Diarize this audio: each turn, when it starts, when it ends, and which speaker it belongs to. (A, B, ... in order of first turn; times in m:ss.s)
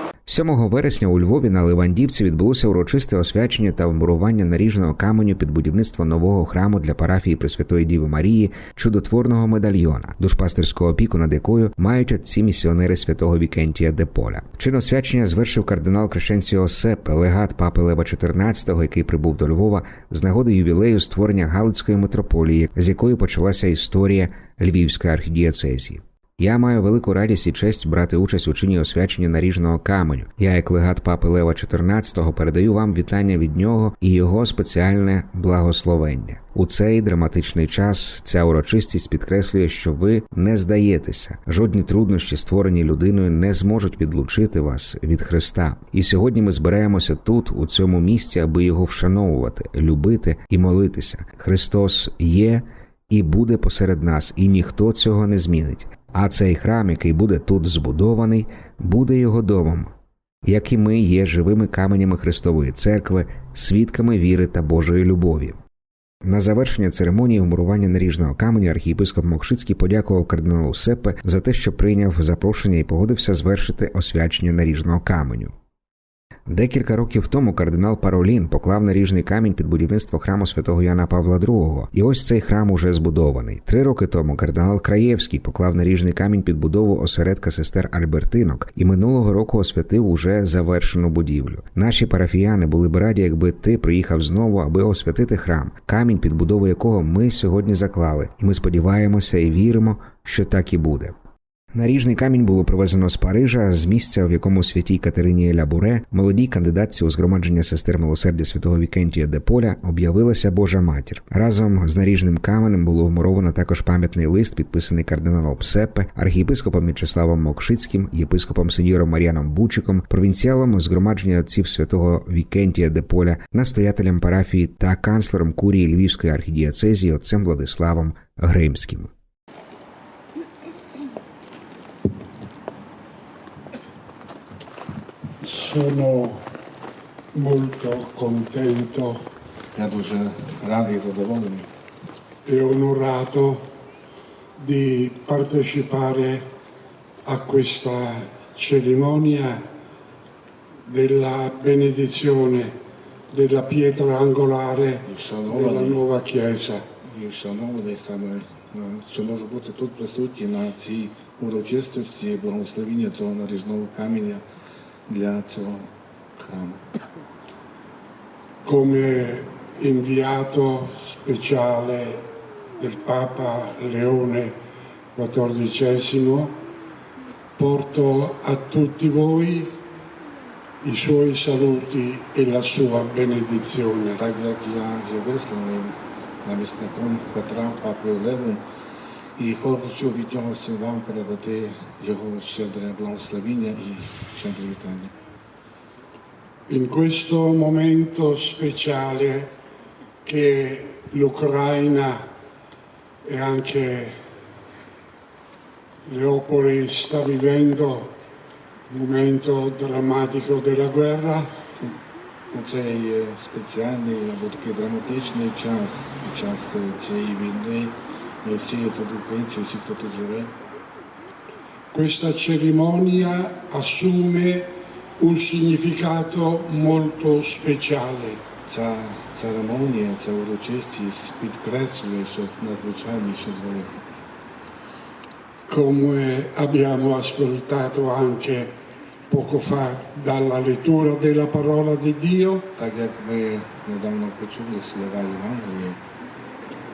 0:00.3-0:59.9 A
1:00.4-1:05.6 A
1:06.2-1:15.5 A
1:16.5-1:41.1 A
1:41.7-2:09.1 A
2:15.4-2:16.4 B
2:17.3-2:19.2 B
2:19.7-2:21.7 C
2:22.4-2:23.7 B
2:24.6-2:26.5 B
2:27.2-2:29.6 B
2:30.8-2:32.7 B
2:33.3-2:36.8 B
2:35.0-2:36.0 C
2:37.0-2:44.4 C
2:45.1-2:46.8 C
2:48.6-2:54.6 B
2:55.1-2:56.6 B
2:57.6-2:59.8 B
3:00.8-3:04.2 B
3:04.1-3:08.6 C
3:09.4-3:15.1 C
3:16.7-3:19.5 B
3:20.2-3:22.2 B
3:23.2-3:24.2 B
3:26.0-3:28.2 B
3:28.9-3:31.5 B
3:32.5-3:40.5 C
3:41.9-3:48.4 B
3:48.6-3:53.9 C
3:55.7-3:58.7 B
3:59.3-4:02.7 B
4:02.7-4:06.0 C